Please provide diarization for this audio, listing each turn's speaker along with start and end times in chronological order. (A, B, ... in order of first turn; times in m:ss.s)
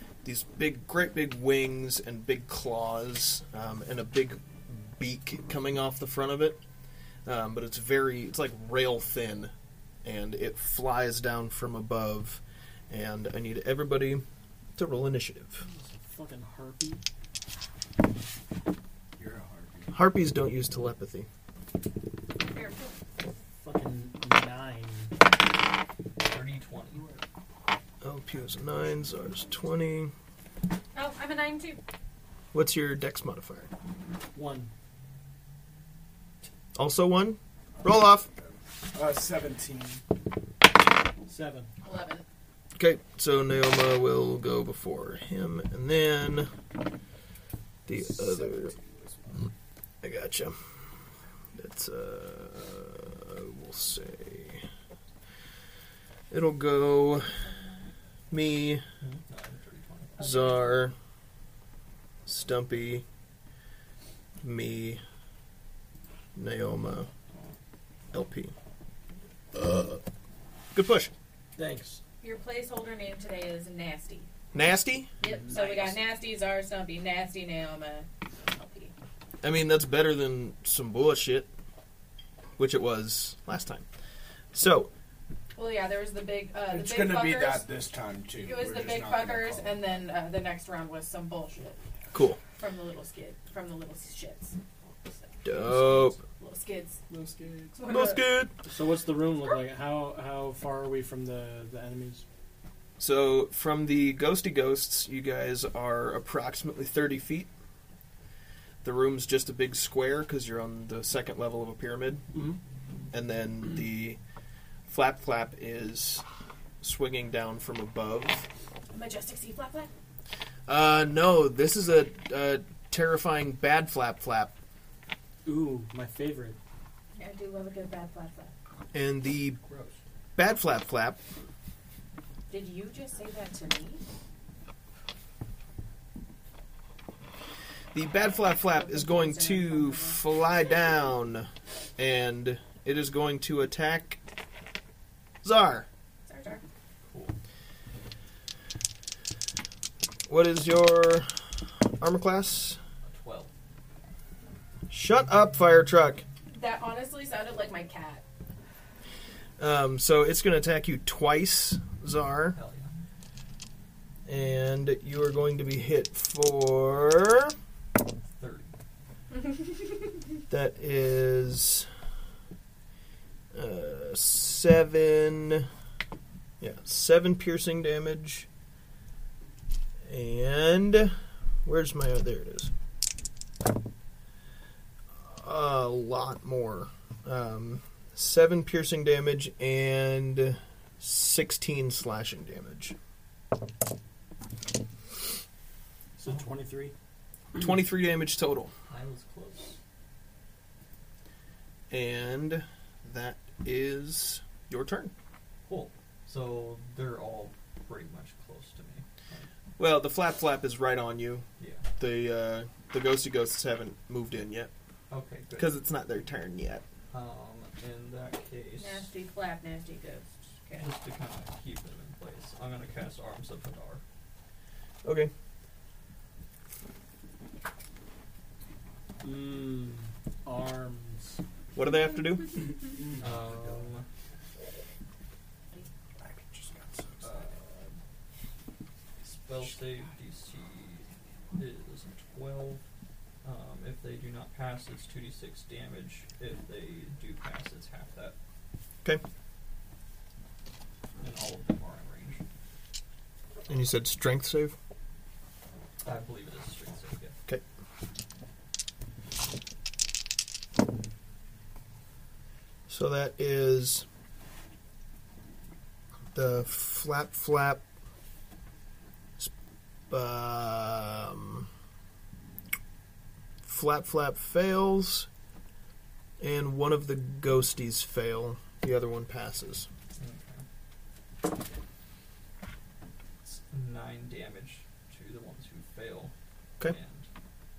0:00.2-0:06.6 A
0:07.2-0:09.5 A
0:10.0-0:14.2 A
0:14.8-0:15.6 A
0:15.6-0:17.0 B
0:19.2-0:19.9 C
0:19.9-0:21.3 A
0:22.4-0:22.9 D
0:23.6-0:25.1 B
0:26.2-0:27.1 E
0:26.9-0:27.2 C
0:28.0-0:30.1 A
0:30.9-0:31.8 D
0:32.5-0:33.7 A
0:34.3-0:34.7 B
0:36.7-0:38.3 A
0:38.3-0:40.0 C
0:41.3-0:41.7 B
0:41.8-0:42.2 D
0:42.8-0:46.5 A
0:47.8-0:48.7 A
0:47.9-0:49.5 C
0:50.0-0:50.6 A
0:51.6-0:54.6 A
0:56.3-0:57.4 A
0:57.3-0:57.9 D
0:58.3-0:58.8 A
0:59.0-1:00.2 E
1:00.2-1:00.8 D
1:00.2-1:00.9 A
1:02.2-1:03.0 A
1:04.4-1:05.0 A
1:06.3-1:07.1 A
1:08.1-1:08.5 A
1:09.6-1:10.0 A
1:10.7-1:11.1 A
1:11.6-1:12.0 B
1:12.2-1:14.3 D
1:14.5-1:15.1 A
1:15.2-1:18.9 D
1:15.5-1:16.0 E
1:19.4-1:21.5 A
1:22.6-1:23.8 A
1:24.5-1:24.9 A
1:25.5-1:27.6 D
1:26.7-1:29.9 C
1:28.4-1:31.8 D
1:32.1-1:32.4 A
1:32.6-1:37.0 D
1:35.4-1:36.2 A
1:37.1-1:37.8 C
1:37.8-1:38.3 D
1:37.9-1:38.5 A
1:38.6-1:42.2 B
1:43.0-1:47.5 A
1:48.8-1:52.2 A
1:52.3-1:52.6 B
1:53.1-1:54.2 A
1:54.9-1:56.2 A
1:56.8-1:58.4 A
1:58.9-1:59.9 D
2:00.7-2:04.5 A
2:05.4-2:06.6 B
2:07.2-2:08.5 D
2:08.9-2:09.6 A
2:09.6-2:10.0 E
2:10.4-2:11.2 A
2:12.5-2:14.0 D
2:17.9-2:24.2 A
2:18.5-2:20.2 D
2:25.4-2:25.9 A
2:26.2-2:26.6 D
2:27.0-2:27.4 E
2:30.3-2:31.3 A
2:32.0-2:32.8 A
2:33.0-2:33.5 E
2:34.9-2:36.2 A
2:36.5-2:38.2 D
2:39.6-2:42.6 A
2:42.5-2:42.9 E
2:44.2-2:47.5 A
2:48.3-2:48.7 E
2:50.5-2:51.9 A
2:53.5-2:55.7 A
2:56.6-2:58.4 A
3:00.0-3:02.7 A
3:05.2-3:12.9 A
3:16.2-3:16.9 B
3:17.6-3:18.7 A
3:18.9-3:19.8 E
3:21.9-3:25.1 A
3:25.6-3:29.5 E
3:29.8-3:31.4 A
3:31.6-3:31.9 E
3:32.0-3:34.7 A
3:35.1-3:35.8 E
3:35.6-3:36.8 A
3:37.1-3:39.1 E
3:38.8-3:40.9 D
3:40.8-3:44.0 E
3:45.0-3:45.3 A
3:49.2-3:51.4 B
3:51.7-3:52.7 A
3:52.9-3:53.7 C
3:53.2-3:54.0 E
3:56.2-3:57.6 C
3:57.2-3:57.9 E
3:59.2-4:02.8 E
3:59.6-4:00.1 C
4:03.4-4:08.4 E
4:11.2-4:12.4 E
4:13.7-4:14.7 A
4:16.0-4:17.3 E
4:22.9-4:24.0 A
4:26.3-4:27.8 A
4:30.1-4:31.7 A
4:33.6-4:35.3 A
4:36.4-4:39.9 A
4:40.2-4:40.6 E
4:43.4-4:47.3 E